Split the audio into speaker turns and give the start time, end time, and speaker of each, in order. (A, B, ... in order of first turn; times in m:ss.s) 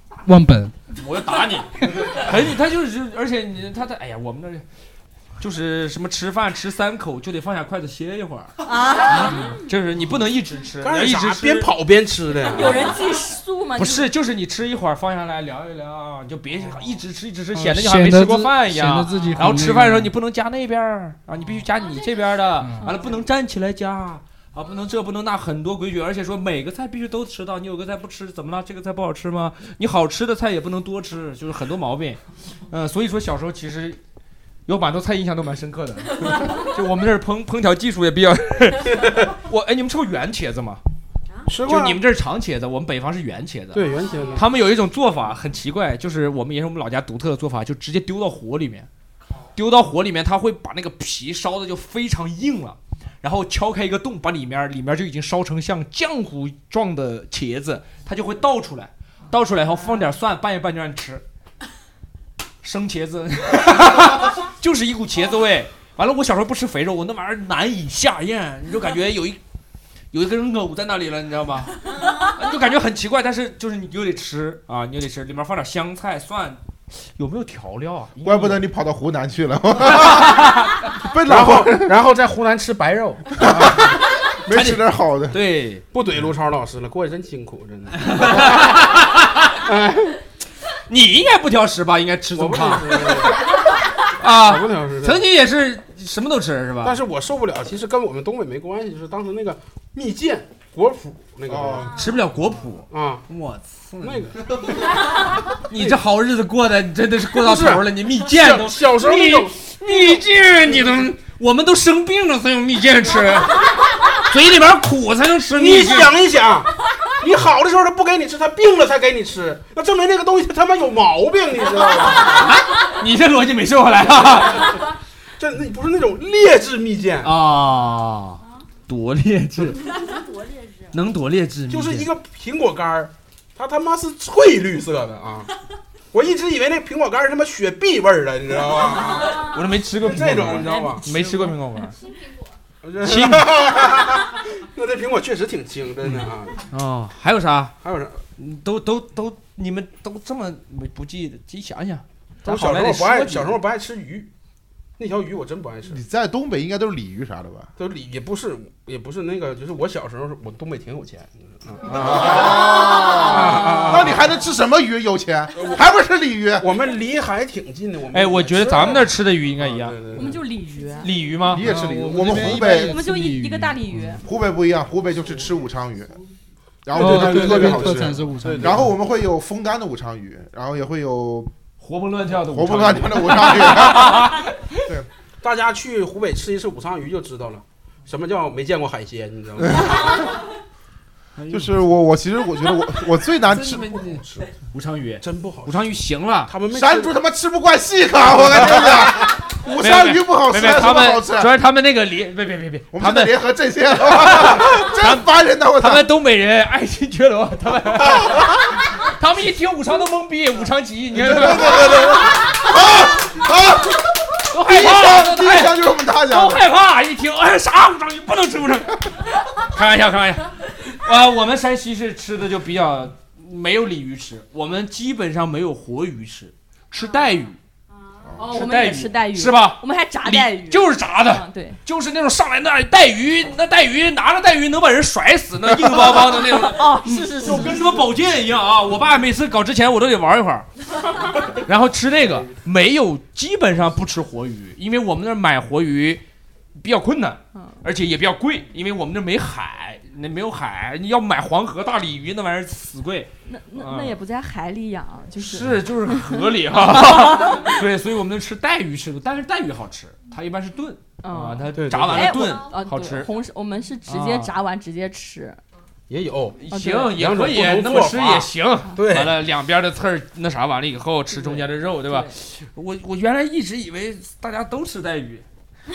0:00.2-0:00.7 A
0:01.0-0:04.6 B
0:05.4-0:11.7 B
0:08.6-0:09.4 C
0:09.2-0:09.6 A
0:10.8-0:13.0 D
0:12.5-0:14.1 C
0:13.8-0:34.0 B
0:17.5-0:20.1 A
0:22.6-0:22.9 A
0:34.7-0:40.8 B
0:41.5-0:42.0 D
0:41.6-0:48.9 B
0:43.7-0:44.4 D
0:49.5-1:01.2 B
1:02.6-1:09.4 B
1:10.1-1:18.6 B
1:18.2-1:21.9 E
1:21.2-1:23.8 D
1:23.4-1:25.4 E
1:24.5-1:25.8 B
1:25.9-1:28.8 D
1:28.0-1:29.5 B
1:29.6-1:30.2 D
1:30.9-1:33.4 B
1:32.3-1:33.4 D
1:34.2-1:37.0 B
1:34.3-1:35.2 D
1:36.8-1:42.0 D
1:41.5-1:41.9 E
1:41.9-1:44.3 B
1:42.9-1:43.2 D
1:44.0-1:44.6 D
1:45.7-1:56.2 B
1:47.4-1:51.0 D
1:55.5-2:02.5 D
2:02.2-2:04.8 B
2:05.4-2:07.3 D
2:07.2-2:09.9 B
2:10.9-2:12.1 B
2:11.7-2:15.5 D
2:16.1-2:21.0 D
2:19.0-2:21.9 B
2:20.6-2:21.5 C
2:22.8-2:26.6 D
2:23.0-2:23.5 B
2:26.0-2:27.7 B
2:27.8-2:28.2 D
2:28.4-2:33.6 B
2:32.4-2:34.3 D
2:35.0-2:36.0 D
2:35.9-2:37.7 E
2:37.8-2:44.3 D
2:41.9-2:42.6 B
2:42.0-2:46.7 E
2:42.9-2:43.9 C
2:46.6-2:50.4 D
2:48.1-2:50.0 B
2:50.1-2:51.1 C
2:51.0-2:51.6 B
2:51.5-2:53.0 E
2:51.6-2:54.2 A
2:52.6-2:54.2 C
2:54.2-2:56.2 E
2:56.8-3:01.5 E
2:56.9-2:58.8 D
2:56.9-2:58.8 A
3:01.8-3:04.8 B
3:02.5-3:04.3 E
3:05.4-3:10.2 D
3:11.4-3:11.7 B
3:11.5-3:14.0 E
3:13.5-3:16.5 B
3:14.1-3:14.4 D
3:15.2-3:15.9 D
3:16.5-3:17.1 D
3:16.7-3:21.5 E
3:18.6-3:19.3 D
3:19.8-3:23.4 B
3:22.9-3:26.1 E
3:24.0-3:32.3 B
3:31.2-3:36.6 E
3:34.5-3:47.6 B
3:48.4-3:51.8 C
3:48.5-4:00.7 B
3:56.6-3:57.9 C
4:01.4-4:06.2 B
4:06.8-4:14.2 B
4:13.5-4:17.8 C
4:15.4-4:23.3 B
4:21.2-4:25.6 C
4:21.7-4:22.5 D
4:24.1-4:24.5 B
4:26.1-4:26.6 D
4:26.6-4:35.4 B
4:26.7-4:27.1 C
4:27.1-4:29.4 D